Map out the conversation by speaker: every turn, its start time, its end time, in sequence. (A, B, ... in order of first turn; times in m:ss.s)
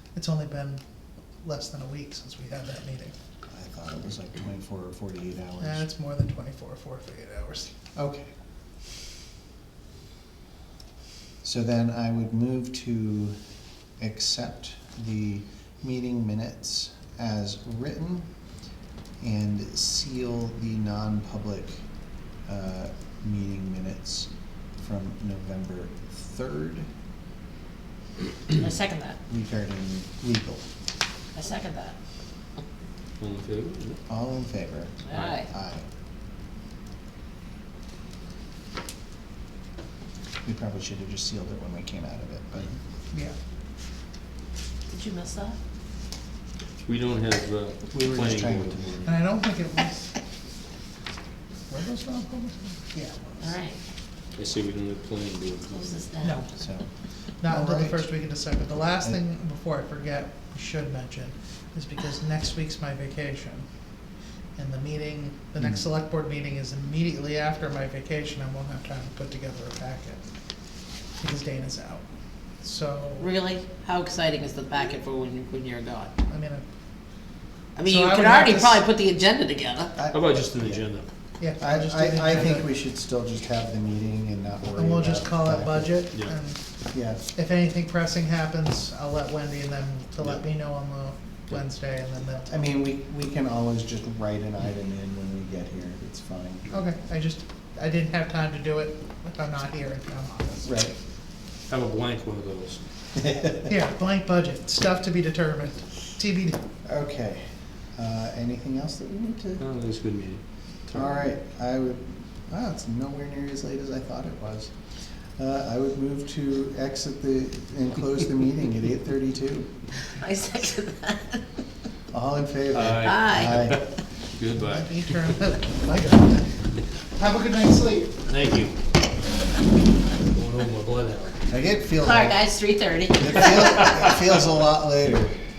0:00.1-0:00.8 A
0:01.4-0:03.1 A
0:03.5-0:05.9 B
0:05.6-0:07.7 A
0:08.0-0:08.3 B
0:11.4-0:13.4 B
0:14.0-0:18.3 B
0:19.2-0:21.8 B
0:22.4-0:26.9 B
0:28.6-0:29.2 C
0:29.3-0:30.7 B
0:31.3-0:32.0 C
0:33.2-0:34.0 D
0:34.1-0:35.8 B
0:35.1-0:35.5 C
0:40.4-0:42.8 B
0:44.9-0:45.6 C
0:46.8-0:49.1 D
0:47.9-0:48.9 B
0:49.1-0:50.1 A
0:51.7-0:53.4 A
0:53.4-0:53.8 C
0:54.3-0:56.0 D
0:55.7-0:56.5 C
0:56.6-0:56.8 B
0:57.4-1:03.7 A
0:57.4-0:58.1 B
1:04.6-1:10.2 A
1:05.6-1:05.8 B
1:11.2-1:12.0 A
1:12.6-1:13.3 A
1:13.2-1:16.1 C
1:16.3-1:16.6 A
1:17.8-1:19.9 C
1:17.8-1:18.8 A
1:20.0-1:20.8 B
1:20.1-1:21.1 D
1:21.4-1:22.6 A
1:21.6-1:26.0 B
1:24.8-1:26.6 A
1:26.9-1:27.3 B
1:27.3-1:32.5 A
1:32.5-1:36.8 B
1:36.7-1:40.7 A
1:40.7-1:41.0 B
1:41.7-1:43.3 D
1:43.7-1:46.6 A
1:46.8-1:49.6 B
1:49.6-1:51.3 D
1:50.9-1:54.7 B
1:55.4-1:59.7 B
2:00.1-2:01.4 C
2:02.1-2:03.8 B
2:02.7-2:03.8 D
2:03.0-2:03.7 C
2:04.4-2:05.1 D
2:04.7-2:06.5 A
2:07.1-2:08.2 A
2:08.2-2:08.8 D
2:10.2-2:11.4 D
2:11.5-2:12.4 B
2:12.0-2:14.0 C
2:13.1-2:15.4 B